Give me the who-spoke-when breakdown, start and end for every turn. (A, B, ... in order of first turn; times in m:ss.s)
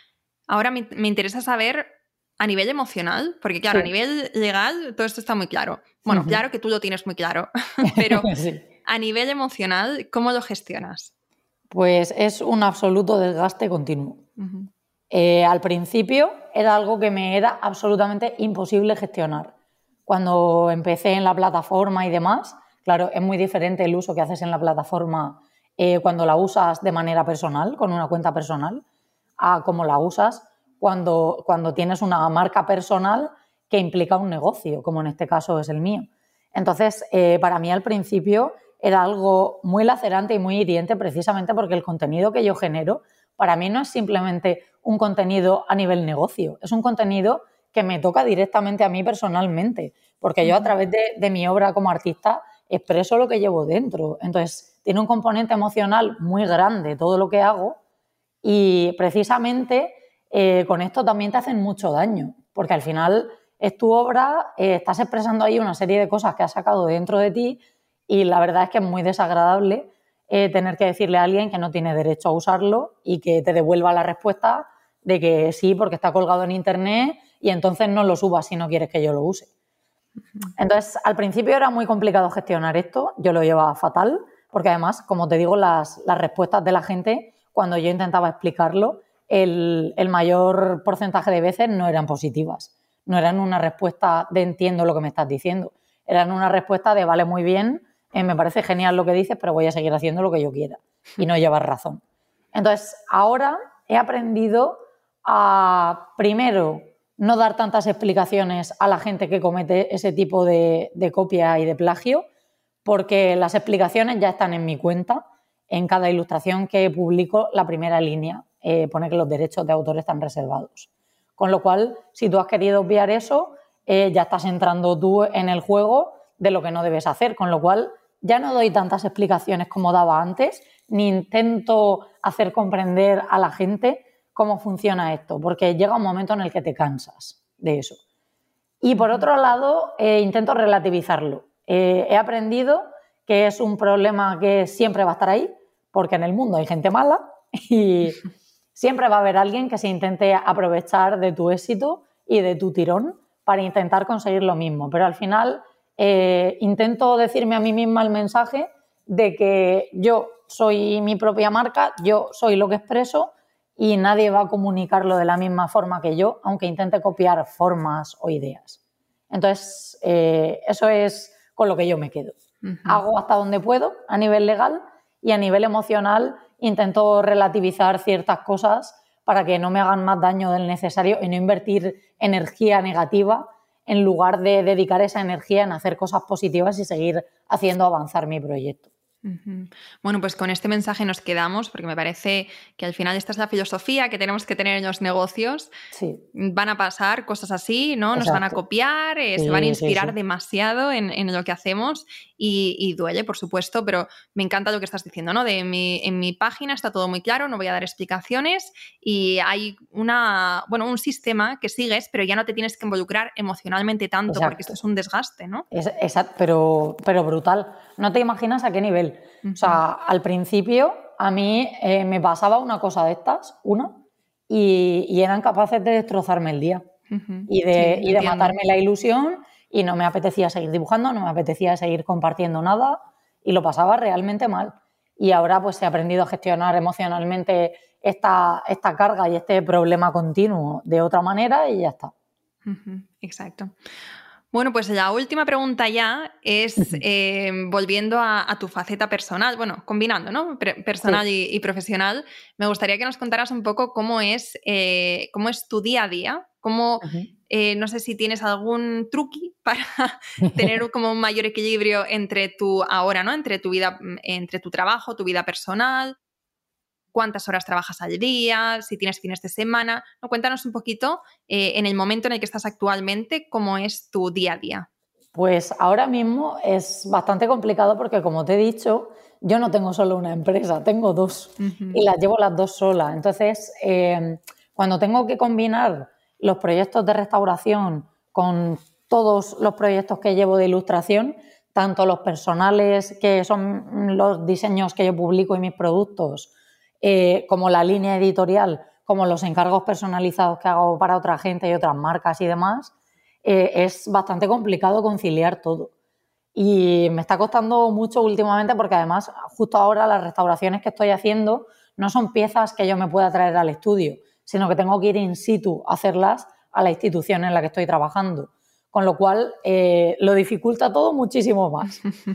0:00.5-0:08.3 A
0:06.1-0:06.4 B
0:07.8-0:08.6 B
0:08.8-0:11.1 A
0:11.7-0:14.2 B
0:14.4-0:14.7 A
0:15.1-0:19.5 B
0:20.1-0:28.8 B
0:29.4-0:57.8 B
0:50.4-0:50.7 A
0:58.4-1:19.5 B
1:20.6-1:42.0 B
1:42.5-1:52.2 B
1:52.8-2:18.0 B
2:18.8-2:28.2 B
2:28.7-2:48.8 B
2:49.3-2:52.3 B
2:52.6-2:53.0 A
2:52.8-3:08.9 B
3:09.2-3:15.7 A
3:15.9-3:16.2 B
3:16.3-3:35.6 A
3:18.1-3:18.6 B
3:19.4-3:20.1 B
3:34.3-3:34.7 B
3:35.7-3:46.8 B
3:39.4-3:39.8 A
3:47.1-3:48.5 A
3:47.5-4:02.1 B
4:02.6-4:03.7 A
4:04.5-4:26.1 A
4:20.4-4:20.6 B
4:27.1-4:34.9 A
4:35.3-5:02.9 B
4:41.6-4:42.0 A
5:03.4-5:05.9 B
5:06.5-5:22.0 B